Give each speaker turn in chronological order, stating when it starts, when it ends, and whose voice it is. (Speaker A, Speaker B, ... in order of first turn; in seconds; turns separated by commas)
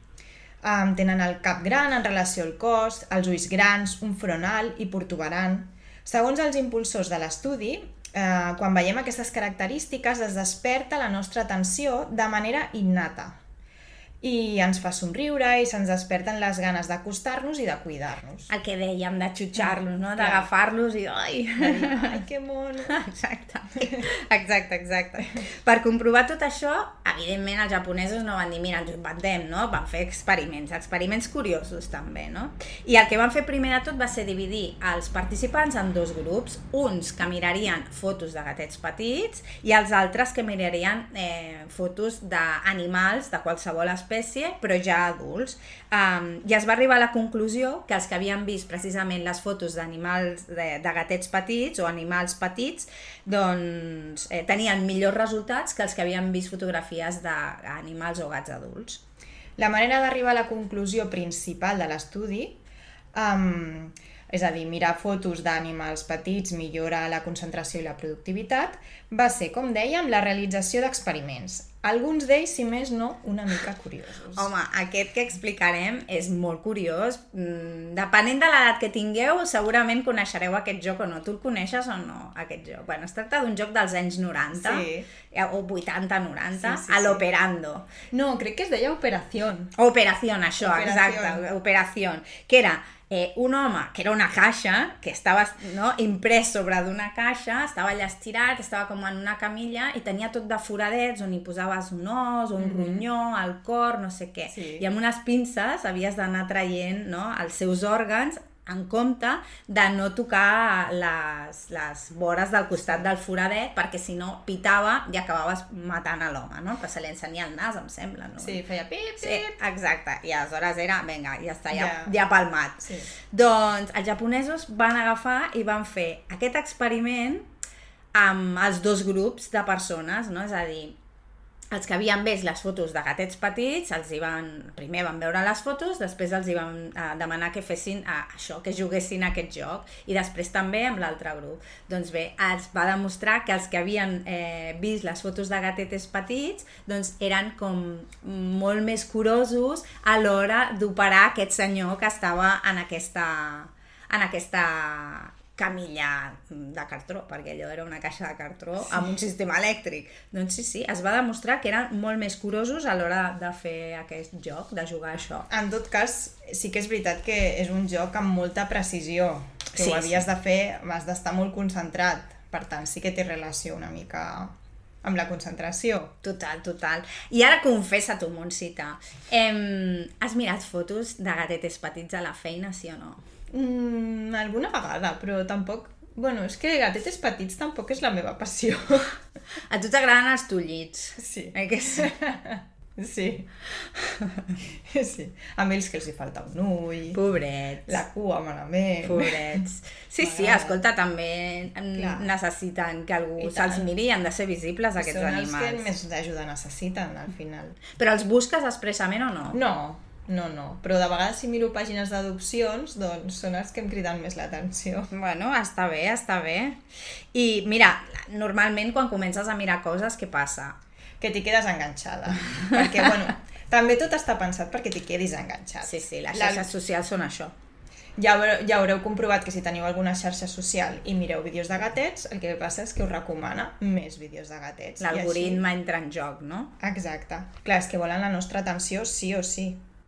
Speaker A: 0.6-13.3, Speaker A: 14.2-18.5, Speaker B: 18.5-22.1, Speaker A: 19.6-20.5, Speaker A: 21.6-23.0, Speaker B: 22.9-59.0, Speaker A: 59.6-62.6, Speaker A: 63.1-74.5, Speaker B: 74.3-87.9, Speaker A: 84.5-85.1, Speaker A: 86.5-87.2, Speaker A: 88.1-89.7, Speaker B: 89.8-118.6, Speaker A: 90.6-91.4, Speaker A: 102.6-103.0, Speaker A: 104.5-104.8, Speaker A: 118.4-119.5, Speaker B: 119.2-127.5, Speaker A: 121.7-122.1, Speaker A: 122.8-123.1, Speaker B: 128.1-131.0, Speaker B: 131.7-165.5, Speaker A: 165.5-176.1, Speaker B: 169.8-170.2, Speaker B: 176.2-183.2, Speaker A: 183.5-189.1, Speaker B: 189.7-192.1, Speaker A: 191.2-193.5, Speaker A: 194.9-197.2, Speaker B: 197.1-198.0, Speaker A: 197.9-199.6, Speaker B: 199.0-205.9, Speaker A: 200.2-200.8, Speaker A: 201.9-202.3, Speaker A: 203.4-203.9, Speaker A: 205.0-207.8, Speaker B: 207.9-209.6, Speaker A: 209.5-215.1, Speaker B: 215.1-216.8, Speaker B: 217.3-220.8, Speaker A: 221.2-226.7, Speaker B: 225.8-227.5, Speaker A: 228.2-235.6, Speaker B: 235.0-236.7, Speaker A: 236.8-239.8